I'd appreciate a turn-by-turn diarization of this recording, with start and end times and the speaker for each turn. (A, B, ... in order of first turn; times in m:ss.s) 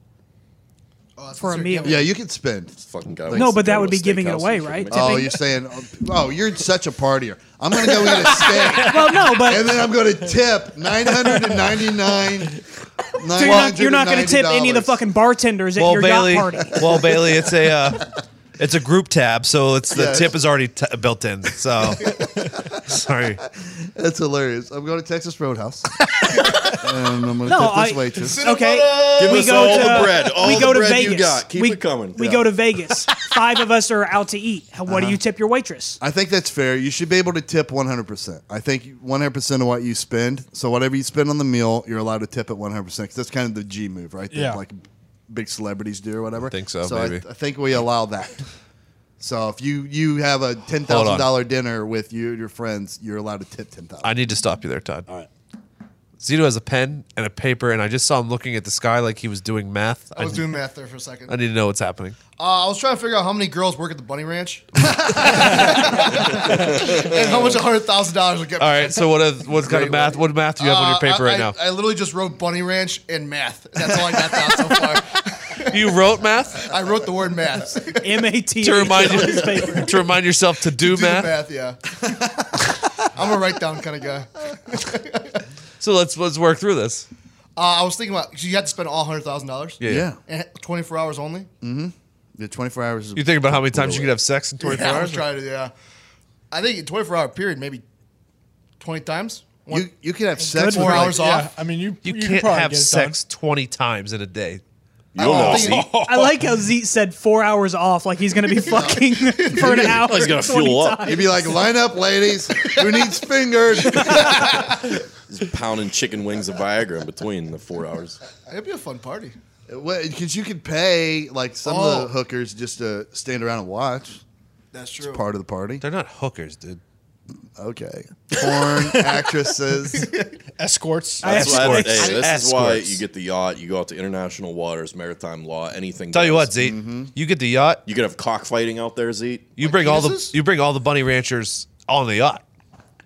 0:01.2-0:02.1 A
0:01.4-0:02.0 B
0:01.8-0:02.8 C
0:02.8-0:05.3 D
0:03.3-0:03.6 C
0:03.3-0:05.4 B
0:04.9-0:15.0 C
0:08.7-0:09.9 B
0:13.2-0:17.0 B
0:15.8-0:23.4 E
0:19.9-0:20.4 C
0:23.4-0:26.0 C
0:26.7-0:28.4 C
0:27.5-0:36.0 B
0:28.2-0:30.3 A
0:29.1-0:32.4 D
0:34.9-0:35.2 C
0:36.0-0:48.4 C
0:44.3-0:44.6 F
0:46.5-0:47.2 E
0:49.2-0:54.2 C
0:50.8-0:51.3 E
0:54.0-0:55.1 E
0:56.2-1:00.5 E
1:00.2-1:01.4 A
1:01.3-1:02.2 E
1:02.4-1:15.9 A
1:05.1-1:05.4 C
1:05.2-1:05.7 E
1:08.6-1:11.6 E
1:15.7-1:16.7 E
1:16.6-1:18.3 A
1:18.0-1:19.9 B
1:18.6-1:21.3 E
1:18.9-1:19.9 A
1:20.7-1:22.4 A
1:23.0-1:25.4 A
1:25.8-1:27.1 E
1:27.6-1:31.5 A
1:29.8-1:30.1 E
1:29.8-1:30.2 C
1:31.6-1:34.1 C
1:33.2-1:35.2 E
1:34.6-1:35.7 A
1:36.5-1:37.8 A
1:38.8-1:39.9 A
1:39.7-1:41.2 C
1:40.4-1:41.1 B
1:40.6-1:41.5 A
1:41.1-1:43.2 F
1:42.0-1:44.6 E
1:45.1-1:45.9 D
1:45.2-1:45.9 C
1:45.2-1:46.5 F
1:46.0-1:51.7 B
1:48.6-1:50.0 A
1:49.6-1:50.0 C
1:49.8-1:51.3 D
1:51.0-1:54.3 C
1:52.6-1:53.2 A
1:53.9-1:54.9 A
1:54.5-1:58.2 D
1:58.5-1:59.4 A
1:59.7-2:04.2 C
2:01.6-2:02.1 A
2:04.7-2:05.2 A
2:05.0-2:05.8 C
2:05.8-2:06.8 E
2:07.6-2:10.1 C
2:10.0-2:10.4 A
2:10.6-2:11.4 F
2:11.2-2:12.2 B
2:11.2-2:16.5 D
2:11.2-2:13.0 E
2:16.1-2:17.8 E
2:16.6-2:17.1 C
2:17.9-2:19.5 D
2:19.6-2:22.4 E
2:19.6-2:20.4 A